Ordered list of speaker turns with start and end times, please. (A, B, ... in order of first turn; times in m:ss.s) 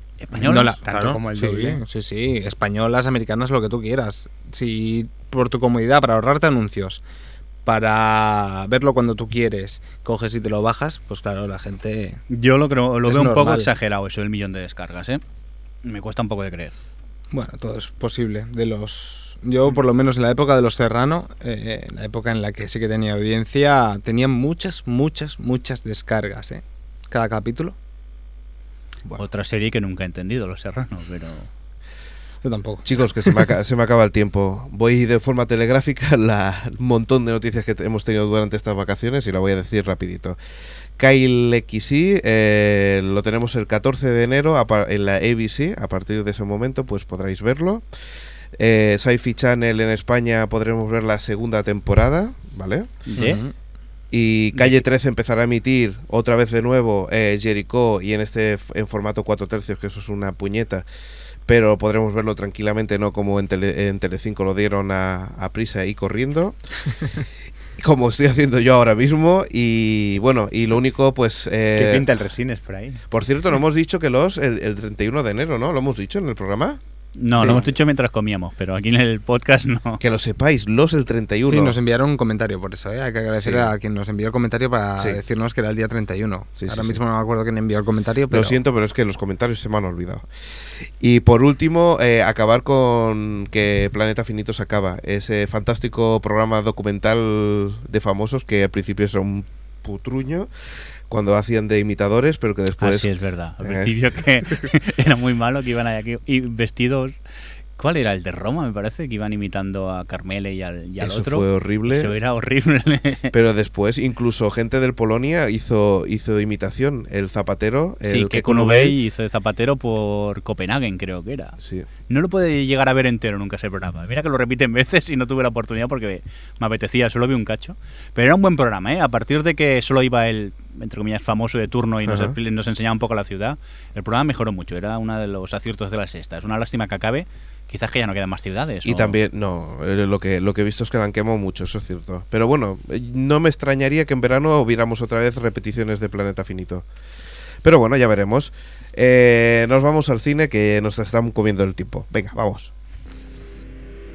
0:00.2-0:00.8 A
0:00.4-0:07.0 B
0:00.5-0:01.8 C
0:07.6-0:12.2 B
0:12.3-0:15.2 A
0:13.0-0:13.7 B
0:15.8-0:16.7 A
0:17.3-0:27.8 B
0:29.1-0:31.5 A
0:32.4-0:33.4 B
0:32.8-0:40.4 D
0:41.0-0:47.8 D
0:48.6-0:52.9 D
0:53.1-0:53.4 A
0:53.2-0:53.5 B
0:54.1-1:00.9 D
1:01.5-1:06.6 D
1:07.8-1:12.1 D
1:11.8-1:13.0 C
1:13.1-1:16.8 D
1:17.2-1:20.0 A
1:17.4-1:17.6 B
1:17.4-1:17.7 D
1:20.0-1:21.8 D
1:21.5-1:28.6 B
1:23.4-1:23.7 D
1:25.0-1:25.2 D
1:26.6-1:27.0 D
1:28.3-1:40.5 D
1:41.1-1:43.1 D
1:42.8-1:47.2 A
1:43.6-1:44.7 D
1:47.8-1:53.4 A
1:51.0-1:52.2 D
1:53.3-1:59.0 D
1:58.1-2:19.2 A
2:01.6-2:01.9 D
2:12.0-2:12.4 D
2:18.8-2:26.9 D
2:27.6-2:32.7 D